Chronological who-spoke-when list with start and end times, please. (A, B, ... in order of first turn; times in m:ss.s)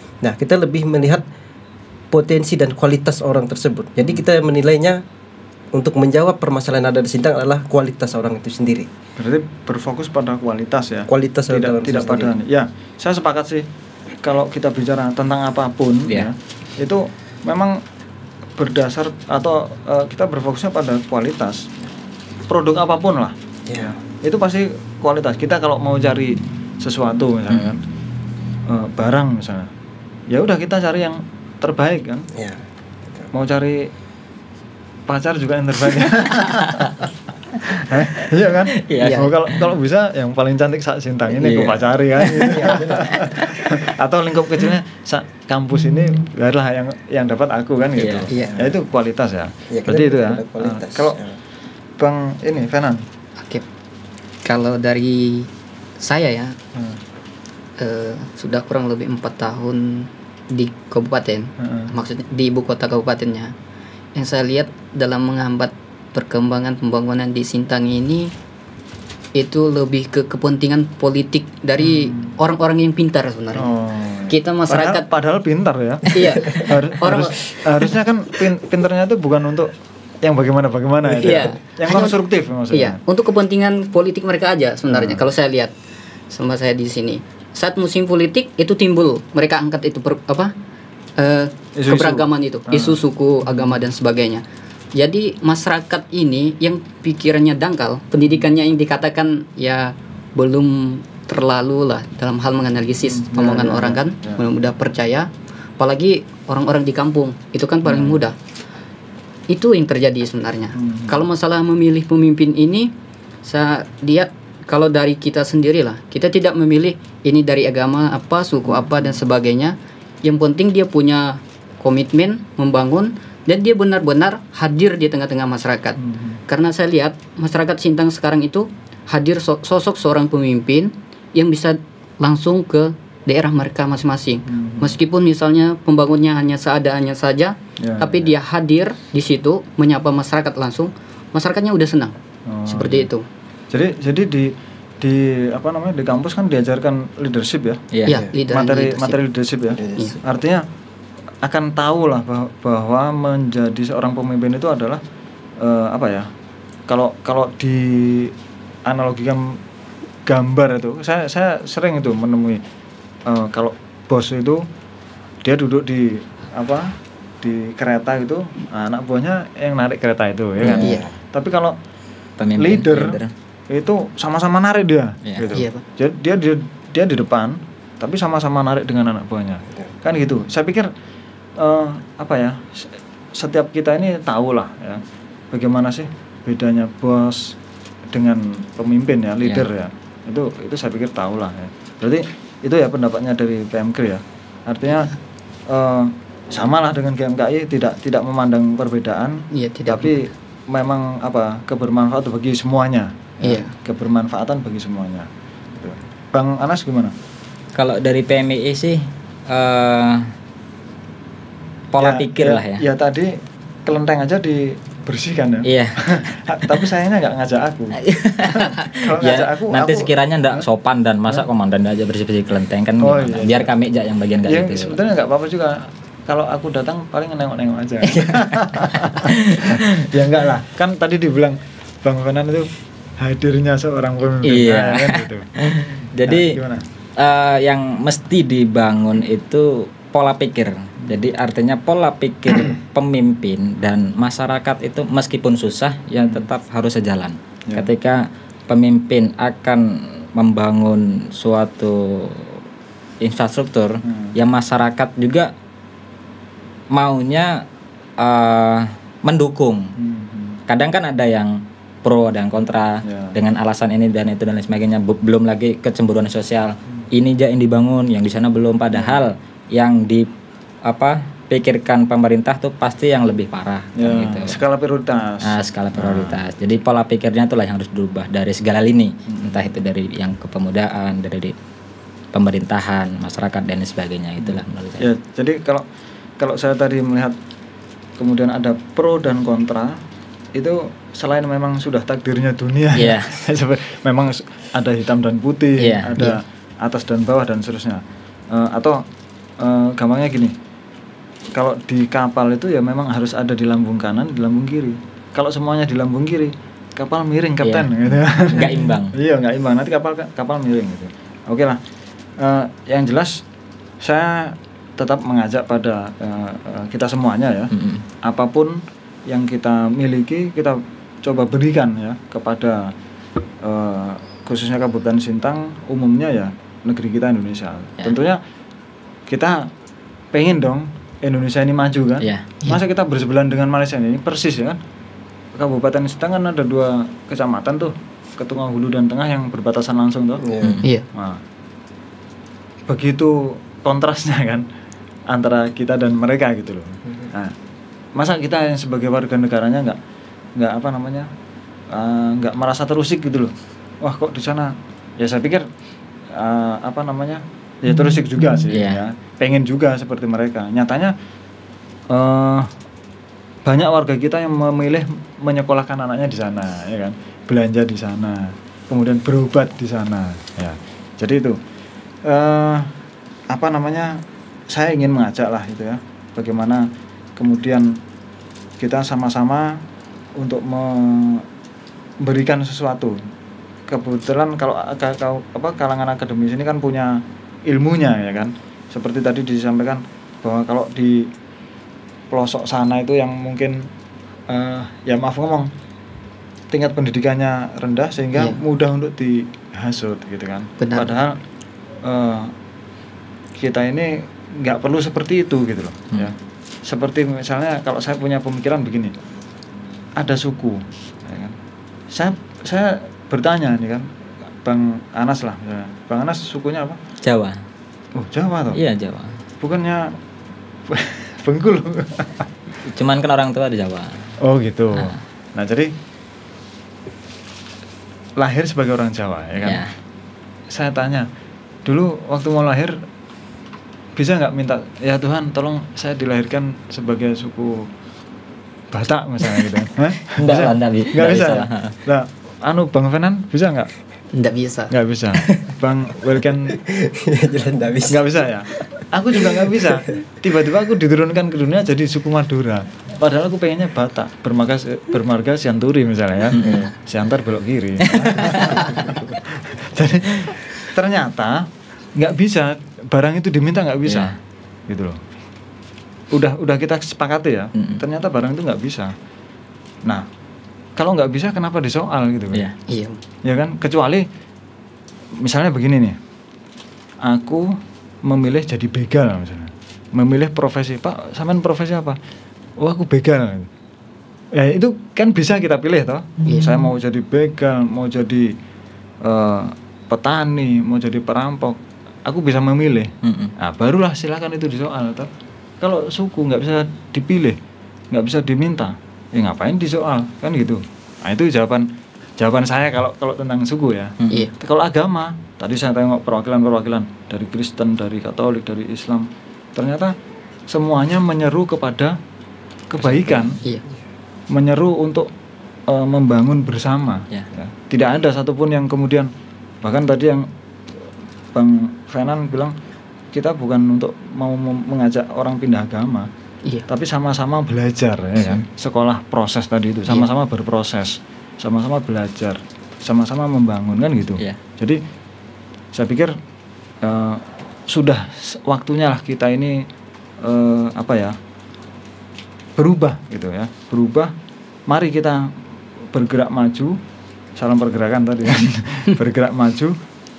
0:00.2-0:01.2 A
0:02.1-0:05.0 A
0:05.7-0:08.9 A
0:09.2-0:13.7 B
0:11.1-0:12.4 A
0:14.2-0:17.8 B
0:18.6-0:21.7 B
0:22.5-0:27.8 B
0:23.7-0:24.0 A
0:28.7-0:29.7 B
0:30.3-0:32.3 B
0:32.3-0:33.3 A
0:33.3-0:33.9 B
0:35.1-0:37.1 B
0:36.5-0:36.8 C
0:37.6-0:51.2 B
0:38.8-0:39.7 C
0:39.0-0:39.3 D
0:41.3-0:43.8 C
0:42.6-0:43.3 A
0:48.0-0:48.3 C
0:48.4-0:48.8 A
0:49.7-0:51.4 A
0:52.0-0:53.0 B
0:54.4-0:55.5 D
0:56.0-0:56.6 D
0:57.8-1:03.5 D
1:01.6-1:01.9 B
1:04.2-1:08.3 D
1:09.4-1:13.7 D
1:11.8-1:12.3 B
1:13.6-1:23.0 B
1:14.3-1:15.1 D
1:16.1-1:17.4 D
1:21.2-1:25.7 D
1:24.9-1:25.2 B
1:26.3-1:30.5 D
1:31.2-1:34.4 D
1:31.8-1:33.8 B
1:35.0-1:48.4 D
1:43.1-1:44.4 B
1:47.9-1:48.2 B
1:49.5-1:52.9 D
1:50.8-1:51.2 B
1:53.4-2:22.2 D
1:58.7-1:59.2 B
2:06.0-2:06.4 B
2:14.5-2:15.0 B
2:17.8-2:18.3 B
2:22.5-2:23.1 B
2:22.7-2:23.2 D
2:23.7-2:27.8 B
2:28.1-2:29.2 D
2:28.1-2:28.3 A
2:28.5-2:30.6 B
2:29.8-2:30.1 A
2:31.4-2:35.0 B
2:35.6-2:36.3 B
2:36.9-2:38.3 B
2:38.9-2:39.6 B
2:40.3-2:42.6 B
2:43.3-2:44.7 B
2:45.4-2:51.8 B
2:50.6-2:51.1 A
2:50.8-2:51.0 D
2:52.4-2:53.3 C
2:52.6-2:53.2 B
2:53.7-3:00.9 B
2:55.5-2:55.8 D
3:01.6-3:07.6 B
3:08.1-3:15.1 B
3:15.7-3:27.1 B
3:19.5-3:20.2 D
3:23.4-3:23.7 D
3:27.8-3:30.3 C
3:31.9-3:32.8 C
3:32.0-3:38.0 B
3:35.6-3:36.8 C
3:38.0-3:45.0 C
3:38.6-3:40.6 B
3:43.0-3:43.7 B
3:44.5-3:55.5 B
3:48.0-3:50.0 C
3:54.4-3:56.6 C
3:56.3-3:56.8 B
3:57.2-4:12.6 C
4:13.2-4:15.5 C
4:14.0-4:14.4 B
4:16.9-4:17.6 C
4:18.2-4:19.9 C
4:20.0-4:20.6 B
4:20.7-4:30.3 C
4:23.0-4:23.4 B
4:28.9-4:29.2 B
4:30.9-4:34.6 C
4:34.0-4:36.4 B
4:35.4-4:41.5 C
4:39.3-4:39.6 B
4:42.3-4:45.1 C
4:44.4-4:45.8 B
4:46.4-4:47.4 B
4:48.2-4:50.0 B
4:50.6-4:59.0 B
4:53.0-4:53.4 C
4:55.8-4:56.2 C
4:59.6-5:00.6 B
5:01.5-5:11.8 B
5:07.6-5:09.2 C
5:12.4-5:13.4 B
5:14.0-5:22.9 B
5:17.7-5:18.0 C
5:23.6-5:28.4 B
5:29.3-5:29.7 B
5:30.3-5:34.8 B
5:32.2-5:32.5 C
5:35.6-5:40.4 B
5:40.4-5:40.8 A
5:41.1-5:41.4 B
5:42.9-5:44.7 B
5:45.3-5:47.5 B
5:48.2-5:50.0 B
5:50.6-5:51.3 B
5:51.9-5:55.7 B
5:56.3-6:01.1 B
5:58.7-5:59.0 C
6:02.1-6:02.7 B
6:03.6-6:11.6 B
6:12.3-6:12.9 B
6:13.5-6:18.0 B
6:18.8-6:19.8 B
6:20.4-6:21.4 B
6:22.2-6:23.2 B
6:23.9-6:31.3 B
6:32.3-6:33.9 B
6:34.5-6:35.7 B
6:36.7-6:41.4 B
6:40.8-6:41.2 D
6:42.0-6:42.5 B
6:43.6-6:46.3 B
6:46.8-6:49.1 B
6:50.2-6:51.6 B
6:52.1-6:54.1 B
6:54.6-6:57.0 B
6:57.2-6:57.6 C
6:58.2-6:58.8 B
6:58.7-6:59.4 C
6:59.6-7:00.2 B
7:00.9-7:02.5 B
7:02.9-7:04.3 C
7:04.4-7:05.9 B
7:08.4-7:09.8 B
7:09.6-7:09.9 C
7:10.7-7:11.3 B
7:11.8-7:13.0 B
7:14.2-7:17.9 B
7:18.9-7:23.9 B
7:20.4-7:22.0 C
7:24.3-7:24.9 D
7:24.9-7:26.8 B
7:26.7-7:28.4 A
7:28.1-7:44.4 B
7:29.3-7:30.1 A
7:36.5-7:36.9 C
7:38.2-7:39.1 C
7:44.1-7:44.3 C
7:44.9-7:45.2 B
7:46.3-7:49.1 B
7:47.8-7:48.0 C
7:51.0-7:52.6 B
7:52.9-7:53.2 D
7:53.4-7:54.3 B
7:55.4-7:56.2 B
7:57.2-8:02.2 B
8:02.8-8:03.7 B
8:04.5-8:08.6 B
8:06.5-8:06.8 D
8:09.2-8:15.3 B
8:13.2-8:13.5 C
8:15.8-8:17.6 B
8:18.1-8:30.2 B
8:24.2-8:24.5 C
8:30.7-8:32.2 B
8:32.9-8:33.6 B
8:33.0-8:33.6 C
8:34.5-8:35.3 B
8:35.9-8:39.3 B
8:39.8-8:40.5 B
8:41.5-8:42.8 B
8:43.3-8:46.3 B
8:46.9-8:55.0 B
8:48.4-8:48.6 C
8:55.9-8:56.4 B
8:57.0-8:59.9 B
9:00.4-9:01.4 B
9:02.8-9:04.3 B
9:04.9-9:05.5 B
9:06.1-9:07.0 B
9:07.6-9:10.0 B